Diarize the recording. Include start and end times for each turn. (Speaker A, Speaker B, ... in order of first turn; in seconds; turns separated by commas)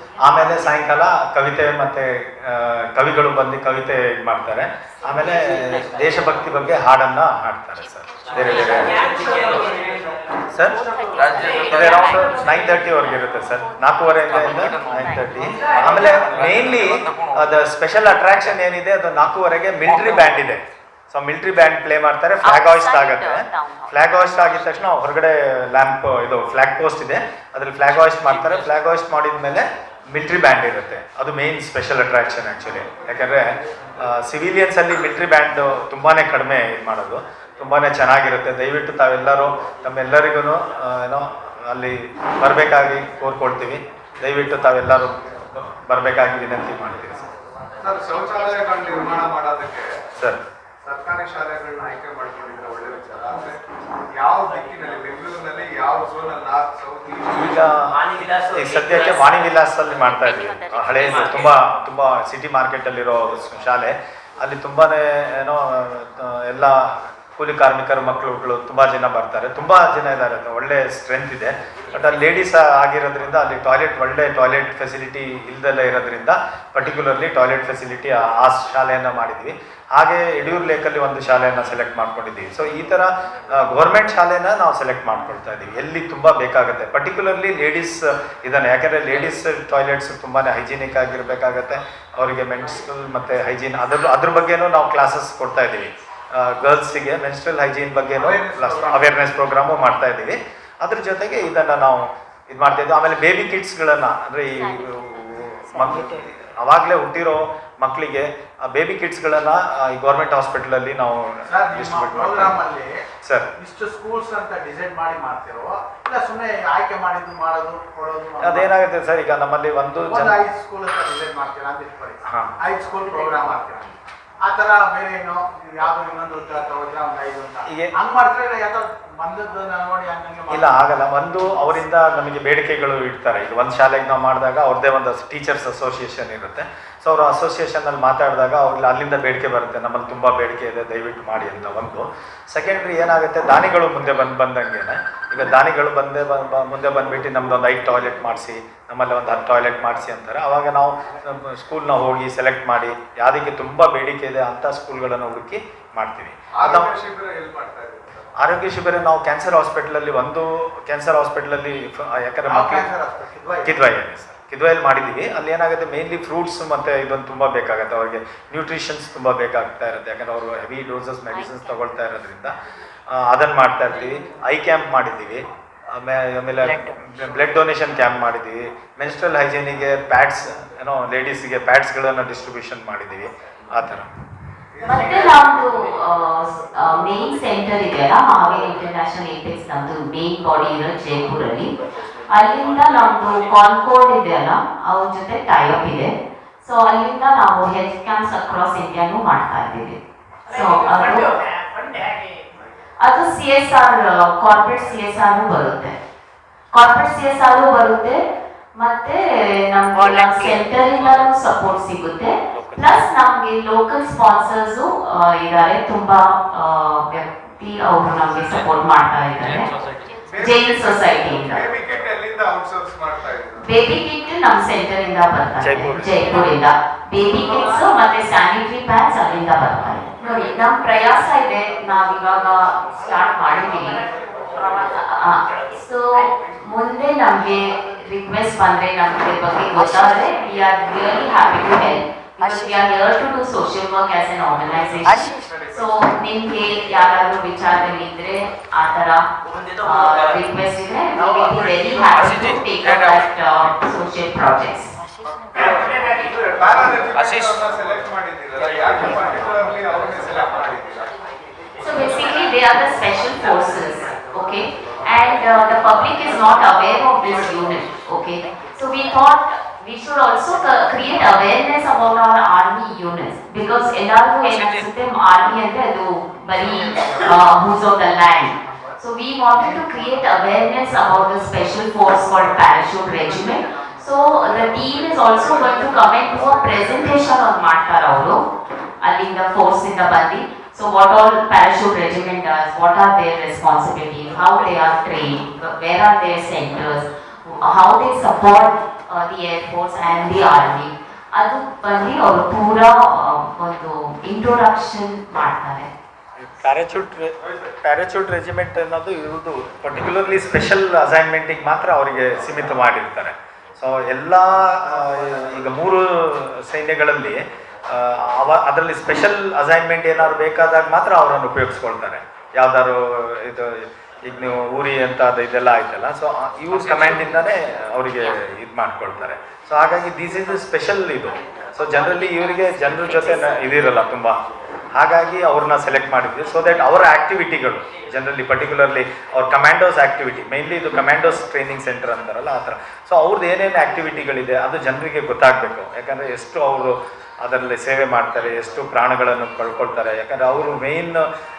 Speaker A: 0.2-9.0, Speaker B: 9.4-9.8, Speaker A: 10.5-10.8, Speaker C: 11.6-11.9, Speaker A: 11.6-33.5, Speaker C: 22.4-23.9, Speaker A: 34.0-47.3, Speaker B: 47.8-50.0, Speaker B: 50.8-53.6, Speaker B: 54.1-57.6, Speaker A: 57.3-112.6, Speaker C: 60.5-61.2, Speaker D: 98.2-99.1, Speaker D: 111.5-112.9, Speaker A: 113.2-113.5, Speaker D: 113.6-118.7, Speaker A: 118.4-120.3, Speaker D: 120.1-130.7, Speaker A: 122.2-122.5, Speaker A: 127.7-127.9, Speaker A: 130.5-156.9, Speaker B: 156.6-158.3, Speaker A: 158.4-162.9, Speaker D: 162.5-163.8, Speaker A: 163.6-172.5, Speaker A: 173.1-184.1, Speaker B: 184.8-185.5, Speaker C: 184.8-191.7, Speaker C: 192.3-196.1, Speaker C: 196.6-200.0, Speaker C: 200.5-201.3, Speaker C: 203.0-205.9, Speaker C: 206.7-208.2, Speaker C: 208.8-219.7, Speaker A: 212.5-213.0, Speaker B: 220.3-223.7, Speaker C: 220.4-221.7, Speaker C: 223.6-234.0, Speaker A: 225.6-226.1, Speaker C: 234.8-249.2, Speaker B: 244.7-246.1, Speaker C: 249.8-254.9, Speaker B: 255.5-261.1, Speaker C: 261.8-288.4, Speaker C: 289.0-305.9, Speaker A: 306.4-334.4, Speaker A: 334.9-351.2